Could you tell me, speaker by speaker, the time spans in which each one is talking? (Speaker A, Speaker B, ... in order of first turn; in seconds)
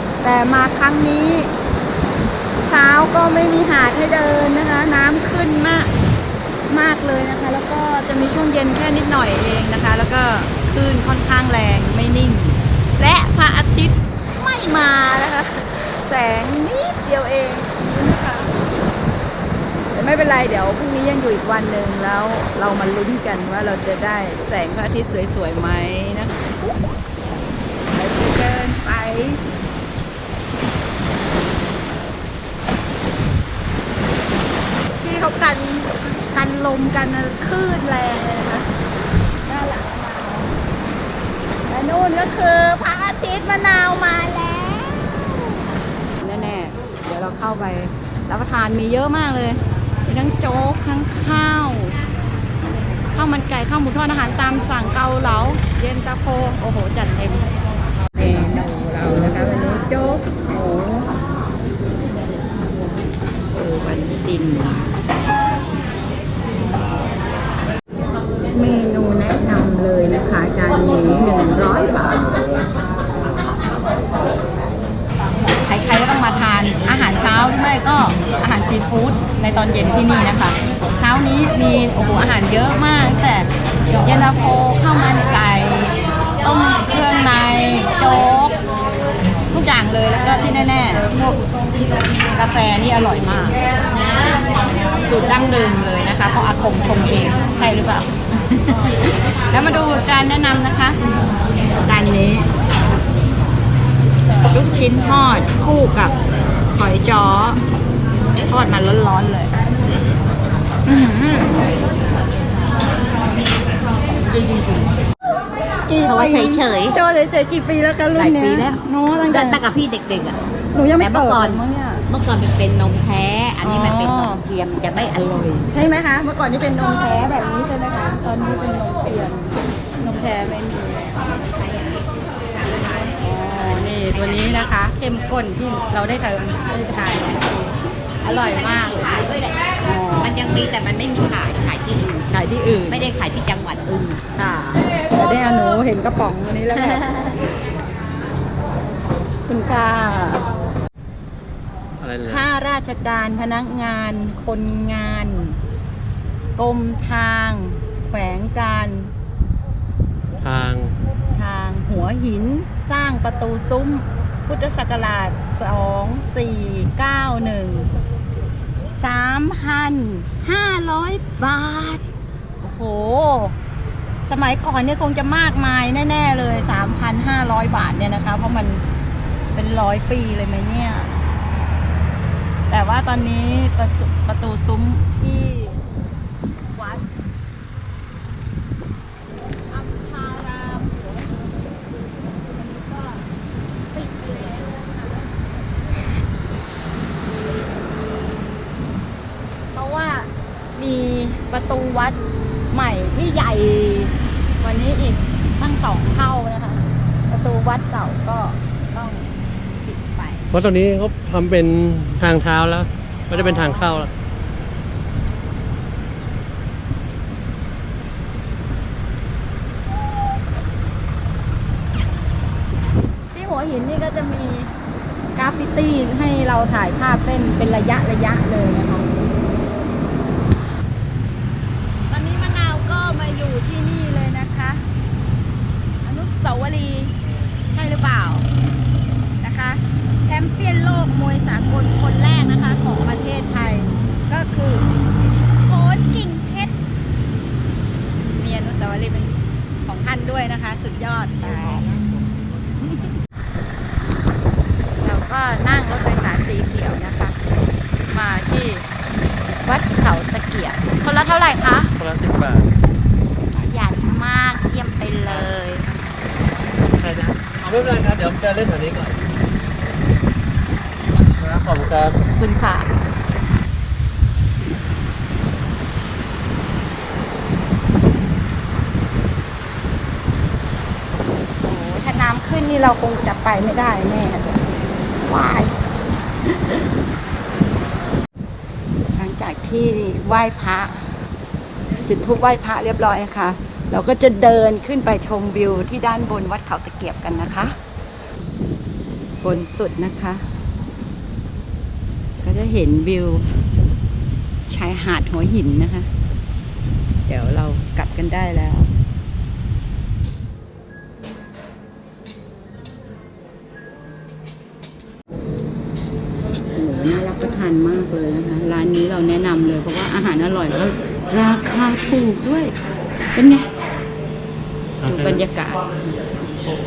Speaker A: 0.2-1.5, 2.6-5.9, 6.7-18.5, 19.9-26.5, 27.9-29.4, 35.0-38.7, 39.5-40.5, 41.7-45.6, 46.2-52.0, 53.1-57.5, 58.1-61.1, 63.5-65.0, 68.5-72.4, 75.6-83.5, 84.0-88.6, 89.5-91.5, 92.2-93.6, 95.0-101.0, 101.8-102.5, 104.5-106.2, 106.7-107.6, 108.5-109.7, 110.9-111.7, 115.8-119.6, 120.7-122.0, 123.6-124.4, 125.7-131.3, 133.2-139.1, 139.8-140.4, 142.3-143.1, 144.4-147.2, 149.5-150.5, 152.2-155.6, 156.6-159.1, 161.3-167.9, 169.0-172.0, 172.6-173.6, 174.2-178.8, 179.6-181.2, 182.7-185.8, 186.8-187.0, 189.7-191.4, 192.5-193.3, 193.9-195.1, 199.7-202.2, 202.7-210.5, 213.3-214.1, 223.3-224.7, 225.4-229.1, 232.1-234.8, 236.0-237.2, 237.7-238.5, 239.4-244.9, 245.6-246.7, 248.4-252.0, 255.0-257.4, 258.1-258.9, 259.6-261.9, 263.5-265.9, 272.4-272.9, 281.6-284.7, 285.2-285.7, 289.2-291.1, 292.1-297.8, 299.4-300.4, 302.4-303.5, 304.7-306.1, 307.3-308.9, 316.5-322.8, 323.3-323.7, 325.0-326.3
Speaker B: 116.0-117.0, 118.2-120.4, 121.0-125.7, 131.3-133.2, 134.1-134.7, 138.2-139.7, 140.2-142.3, 142.9-144.2, 146.9-147.3
Speaker C: 152.0-152.5, 160.4-160.9, 210.5-214.1, 262.0-262.7, 265.3-265.5, 266.9-269.2, 271.2-272.2, 325.0-325.4